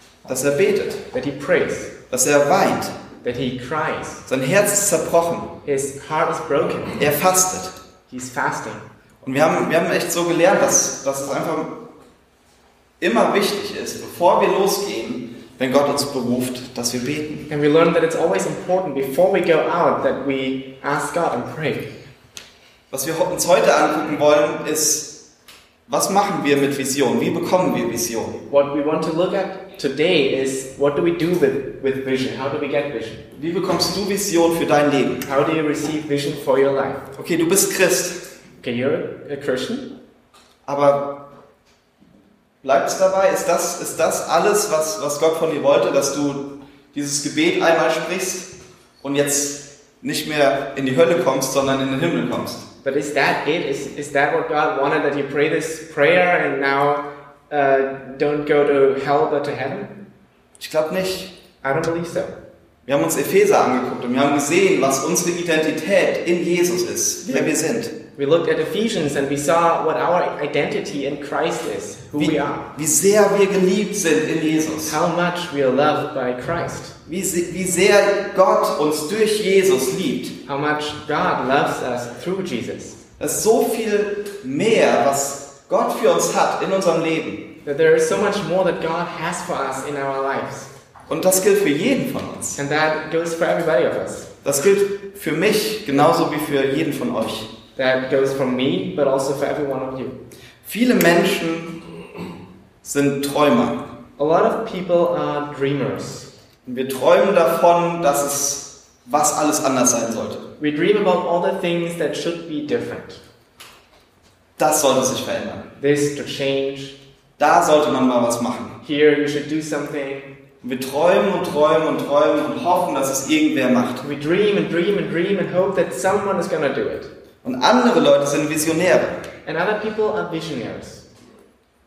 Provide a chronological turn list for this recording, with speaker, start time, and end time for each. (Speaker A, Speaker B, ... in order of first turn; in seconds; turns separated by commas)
Speaker A: 0.3-1.0, Speaker B: 1.1-1.9, Speaker A: 2.1-3.0, Speaker B: 3.2-4.2, Speaker A: 4.3-5.5, Speaker B: 5.7-7.0, Speaker A: 7.0-7.8, Speaker B: 8.1-8.9, Speaker A: 9.2-11.8, Speaker A: 13.0-17.5, Speaker B: 17.5-21.9, Speaker A: 22.9-25.2, Speaker A: 25.9-28.4, Speaker B: 28.5-33.2, Speaker A: 33.4-35.2, Speaker B: 35.2-37.0, Speaker A: 37.2-38.3, Speaker B: 38.6-39.9, Speaker A: 40.6-41.2, Speaker A: 42.6-52.7, Speaker B: 52.8-59.9, Speaker A: 60.6-61.4, Speaker B: 61.6-62.3, Speaker A: 62.9-67.9, Speaker B: 67.3-67.5, Speaker B: 68.2-72.7, Speaker A: 72.2-75.0, Speaker B: 74.8-77.0, Speaker A: 77.1-80.4, Speaker B: 80.5-83.0, Speaker A: 83.2-87.6, Speaker B: 87.7-90.7, Speaker A: 91.1-92.6, Speaker B: 92.6-94.3, Speaker A: 94.4-97.5, Speaker B: 97.8-100.2, Speaker A: 100.6-101.8, Speaker A: 102.8-103.8, Speaker B: 104.2-106.3, Speaker A: 106.7-110.5, Speaker B: 110.6-113.2, Speaker A: 114.6-115.7, Speaker B: 115.8-117.0, Speaker A: 117.4-118.8, Speaker B: 118.8-120.3, Speaker A: 120.6-124.0, Speaker B: 124.0-127.1, Speaker A: 127.4-129.2, Speaker B: 129.4-131.1